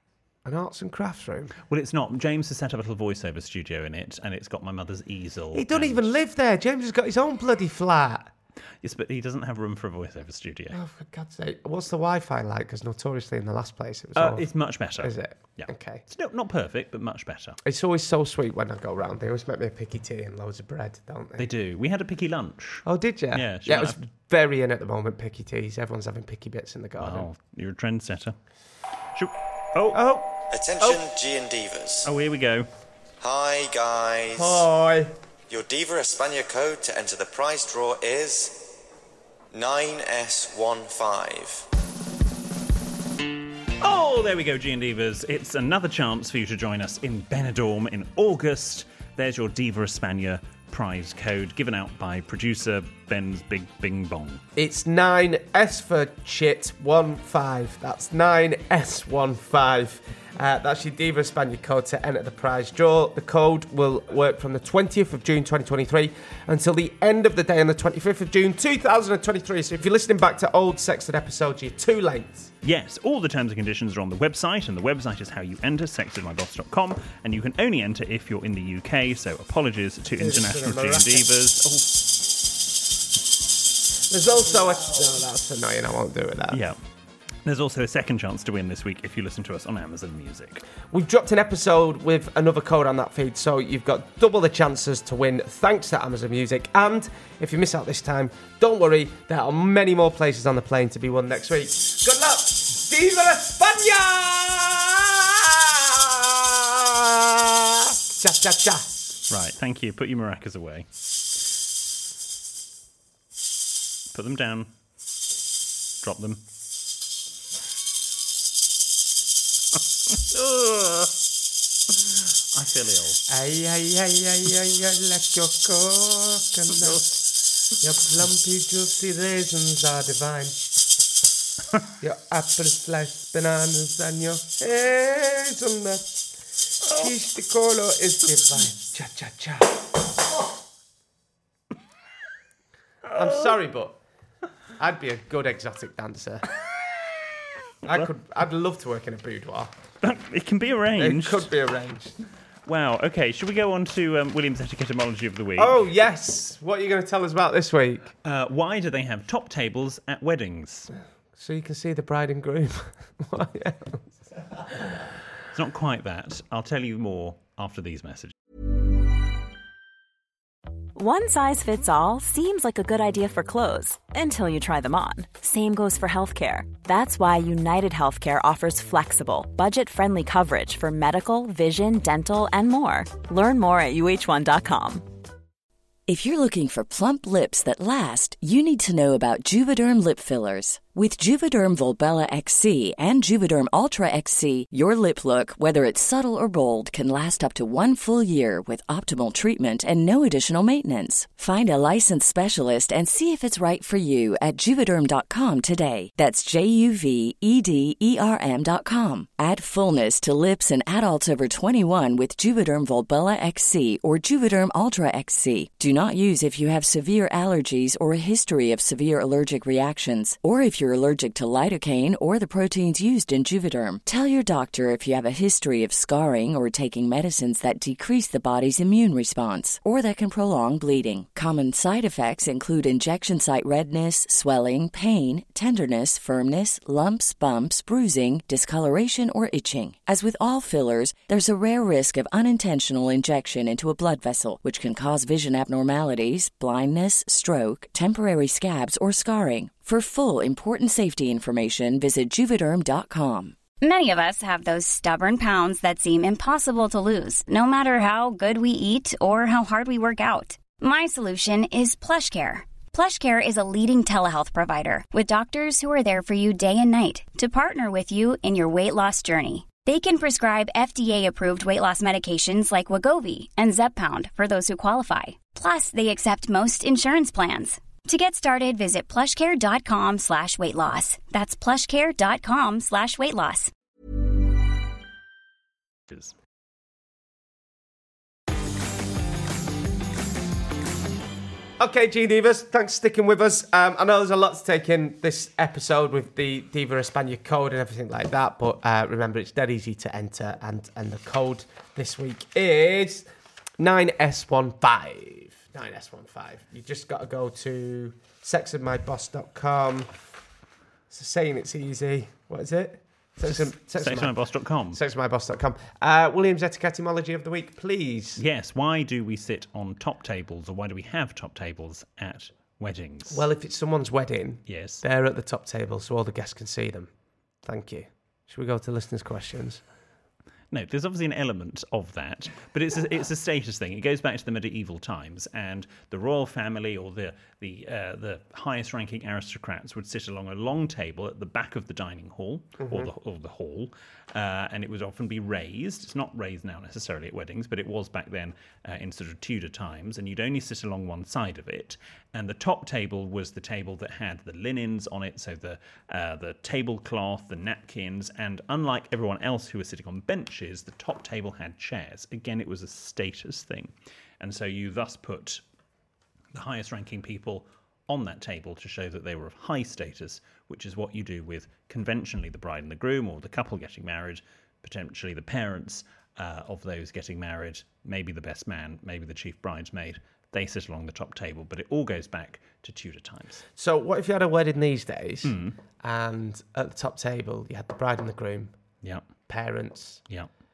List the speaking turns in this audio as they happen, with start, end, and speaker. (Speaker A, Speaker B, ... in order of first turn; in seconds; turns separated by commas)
Speaker A: 0.4-1.5, Speaker B: 1.7-6.1, Speaker A: 5.5-8.3, Speaker B: 8.8-10.8, Speaker A: 10.7-16.0, Speaker B: 14.1-17.6, Speaker A: 17.6-21.5, Speaker B: 21.4-24.0, Speaker A: 22.8-27.3, Speaker B: 27.0-28.4, Speaker B: 29.1-30.1, Speaker A: 29.9-31.0, Speaker C: 30.5-32.1, Speaker B: 32.0-32.7, Speaker C: 33.2-34.6, Speaker A: 34.3-35.1, Speaker C: 35.5-38.7, Speaker C: 39.5-41.7, Speaker B: 43.8-54.4, Speaker A: 54.5-72.5, Speaker B: 72.6-82.0, Speaker A: 80.2-81.3, Speaker A: 84.1-86.6, Speaker B: 86.5-86.8, Speaker B: 87.4-90.6, Speaker A: 90.9-108.9, Speaker B: 109.3-110.9, Speaker B: 114.1-114.7, Speaker B: 116.0-116.4, Speaker B: 120.3-121.1, Speaker B: 122.5-123.2, Speaker A: 123.3-130.7, Speaker A: 132.0-136.3, Speaker A: 136.8-139.9, Speaker A: 143.1-144.0, Speaker A: 144.8-146.4, Speaker A: 147.8-149.7, Speaker B: 150.0-151.5, Speaker A: 151.0-152.2, Speaker B: 152.7-155.8, Speaker A: 155.6-158.1, Speaker B: 158.2-160.9, Speaker A: 161.3-164.0, Speaker B: 165.5-168.3, Speaker D: 170.9-185.1, Speaker E: 186.1-253.6, Speaker F: 253.8-283.7, Speaker A: 291.8-310.1, Speaker A: 311.1-318.4, Speaker B: 313.4-315.0, Speaker B: 318.4-323.4, Speaker A: 323.3-327.1, Speaker B: 324.7-325.0, Speaker A: 327.6-329.8, Speaker B: 330.7-365.6, Speaker A: 342.8-343.1, Speaker B: 366.5-383.6, Speaker A: 383.8-388.7, Speaker B: 385.4-385.8, Speaker B: 389.0-389.3, Speaker A: 389.5-390.2